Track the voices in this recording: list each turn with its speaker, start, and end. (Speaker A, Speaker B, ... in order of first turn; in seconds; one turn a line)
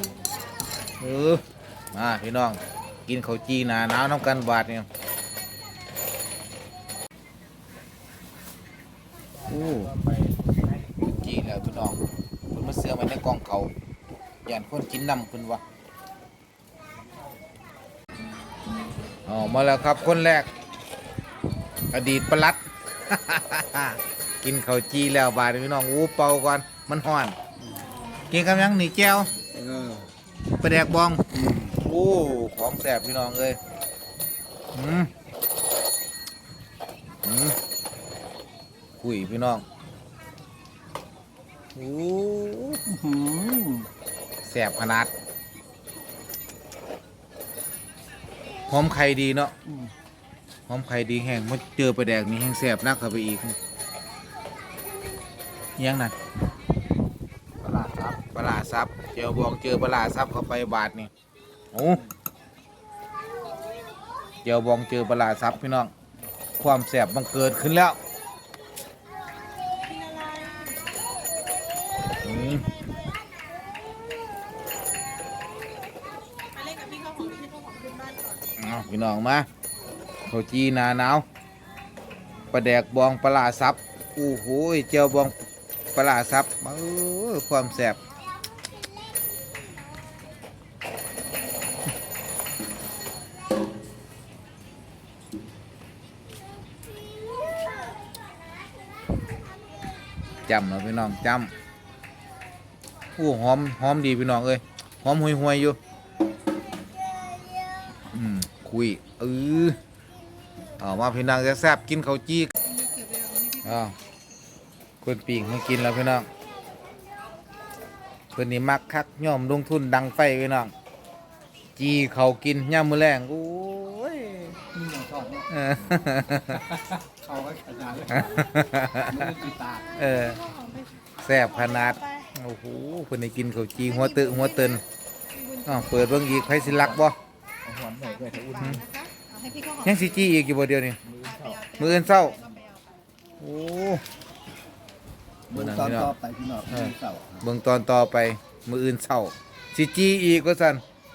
Speaker A: 1.0-4.9
Speaker A: 9.5-10.0
Speaker A: 11.2-12.0
Speaker A: 12.5-13.7
Speaker A: 14.5-15.6
Speaker A: 19.3-20.5
Speaker A: 21.9-27.4
Speaker A: 28.3-29.3
Speaker B: 29.5-30.1
Speaker A: 30.6-33.6
Speaker B: 31.3-31.7
Speaker A: 34.7-35.1
Speaker A: 37.2-37.6
Speaker A: 39.0-39.6
Speaker A: 41.8-42.8
Speaker B: 42.9-43.9
Speaker A: 44.5-45.1
Speaker A: 48.7-49.5
Speaker A: 50.7-53.6
Speaker A: 55.8-56.1
Speaker A: 57.6-61.1
Speaker A: 61.7-62.0
Speaker A: 64.4-65.9
Speaker A: 66.6-68.0
Speaker C: 69.8-71.0
Speaker A: 72.2-72.7
Speaker C: 76.5-78.4
Speaker A: 78.5-79.5
Speaker A: 80.3-81.2
Speaker A: 82.5-85.3
Speaker A: 86.0-88.0
Speaker A: 100.5-101.5
Speaker A: 103.2-105.8
Speaker A: 108.1-109.8
Speaker A: 110.8-112.5
Speaker C: 112.7-113.6
Speaker A: 113.6-114.0
Speaker A: 115.0-116.3
Speaker A: 118.3-120.7
Speaker A: 121.8-124.6
Speaker B: 124.7-125.5
Speaker A: 125.5-126.7
Speaker B: 126.7-128.5
Speaker A: 128.1-129.4
Speaker B: 129.1-130.0
Speaker A: 130.0-130.5
Speaker C: 130.5-130.9
Speaker A: 131.2-134.8
Speaker A: 135.7-137.2
Speaker B: 136.7-137.0
Speaker B: 137.6-138.8
Speaker C: 138.3-139.8
Speaker A: 139.8-141.0
Speaker B: 141.1-141.7
Speaker A: 141.7-142.4
Speaker C: 142.4-142.9
Speaker A: 143.4-144.0
Speaker B: 145.5-147.4
Speaker A: 145.5-146.1
Speaker A: 146.7-150.8